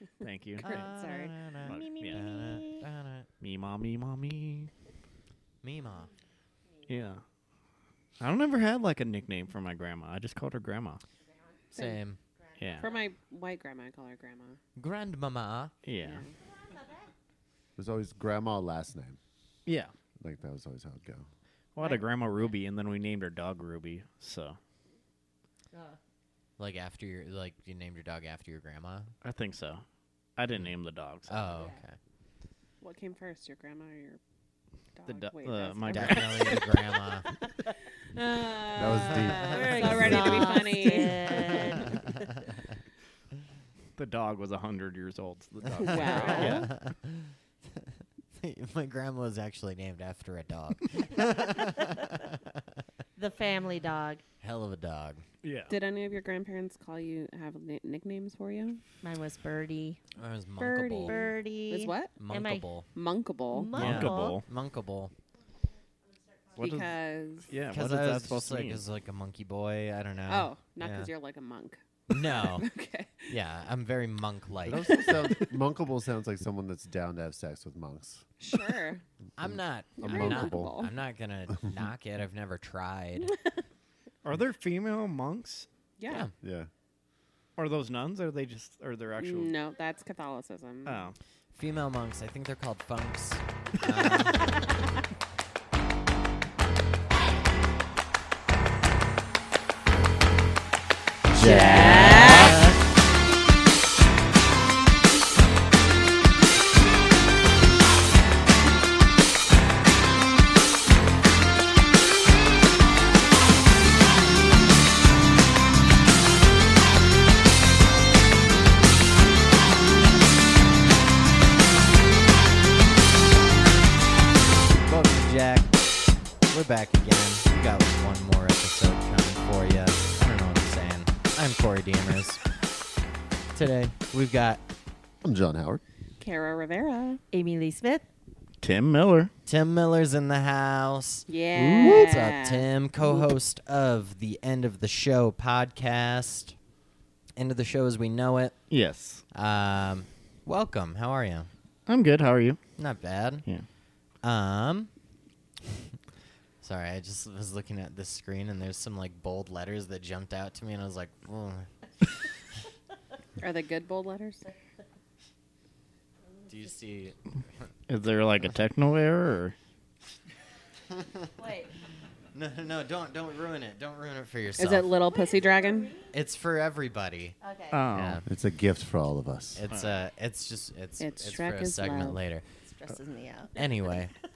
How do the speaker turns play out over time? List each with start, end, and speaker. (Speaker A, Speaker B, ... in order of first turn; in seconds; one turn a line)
Speaker A: 0.2-0.8
Speaker B: 0.6-3.3
Speaker C: 0.6-1.3
Speaker A: 1.6-2.2
Speaker D: 1.6-2.9
Speaker A: 3.4-4.7
Speaker B: 5.6-6.1
Speaker A: 6.9-7.2
Speaker A: 8.2-11.0
Speaker C: 11.7-12.0
Speaker B: 11.7-12.2
Speaker D: 12.4-13.0
Speaker C: 12.8-14.6
Speaker B: 14.8-15.7
Speaker A: 15.8-16.2
Speaker C: 16.0-16.3
Speaker E: 17.8-19.2
Speaker A: 19.6-19.9
Speaker E: 20.2-21.2
Speaker A: 21.8-24.6
Speaker B: 26.6-29.1
Speaker A: 29.2-29.8
Speaker A: 30.4-31.5
Speaker B: 31.3-31.9
Speaker C: 32.8-34.2
Speaker C: 34.9-36.7
Speaker A: 35.1-36.6
Speaker B: 35.9-37.3
Speaker C: 38.1-41.9
Speaker E: 38.7-40.5
Speaker D: 39.2-42.0
Speaker A: 44.0-46.7
Speaker C: 45.7-46.7
Speaker D: 46.1-46.7
Speaker B: 46.2-47.3
Speaker B: 48.4-52.5
Speaker D: 53.2-54.2
Speaker B: 54.4-55.2
Speaker A: 55.4-55.7
Speaker C: 55.7-58.8
Speaker D: 59.0-60.0
Speaker B: 60.2-61.2
Speaker C: 60.6-62.1
Speaker D: 61.0-62.7
Speaker B: 62.2-62.9
Speaker C: 62.9-63.7
Speaker D: 63.5-64.4
Speaker A: 63.7-64.4
Speaker B: 63.7-65.1
Speaker C: 66.6-67.5
Speaker A: 66.6-66.9
Speaker A: 67.5-68.8
Speaker B: 67.7-71.1
Speaker C: 70.3-73.3
Speaker B: 72.1-72.7
Speaker B: 73.3-75.0
Speaker E: 74.7-78.3
Speaker C: 74.8-75.3
Speaker C: 78.4-79.0
Speaker B: 79.4-83.3
Speaker E: 79.4-80.8
Speaker C: 80.0-80.9
Speaker A: 84.2-85.7
Speaker C: 86.0-86.2
Speaker E: 86.4-86.7
Speaker A: 87.6-89.5
Speaker C: 89.2-91.1
Speaker A: 90.8-91.2
Speaker B: 91.5-94.4
Speaker E: 101.3-102.5
Speaker D: 101.4-102.7
Speaker B: 101.4-102.8
Speaker C: 101.8-102.5
Speaker B: 124.8-125.8
Speaker B: 126.5-132.4
Speaker B: 133.5-134.6
Speaker E: 135.2-135.8
Speaker C: 136.2-137.2
Speaker D: 137.3-138.0
Speaker A: 138.6-139.3
Speaker B: 139.4-141.3
Speaker C: 141.3-142.6
Speaker A: 141.5-142.1
Speaker B: 141.8-146.6
Speaker B: 147.4-148.6
Speaker A: 148.7-149.2
Speaker B: 149.3-151.5
Speaker A: 151.9-152.6
Speaker B: 152.8-153.4
Speaker B: 154.2-154.9
Speaker B: 156.6-161.7
Speaker C: 163.4-164.4
Speaker B: 166.5-167.2
Speaker A: 167.9-169.5
Speaker B: 170.9-171.3
Speaker D: 171.4-171.7
Speaker B: 172.3-174.9
Speaker C: 174.6-175.9
Speaker D: 175.4-176.0
Speaker B: 176.1-177.3
Speaker D: 177.4-177.8
Speaker A: 177.7-178.2
Speaker B: 177.9-178.2
Speaker E: 178.2-179.6
Speaker B: 179.6-182.4
Speaker C: 181.0-182.2
Speaker D: 182.6-183.9
Speaker B: 183.5-184.1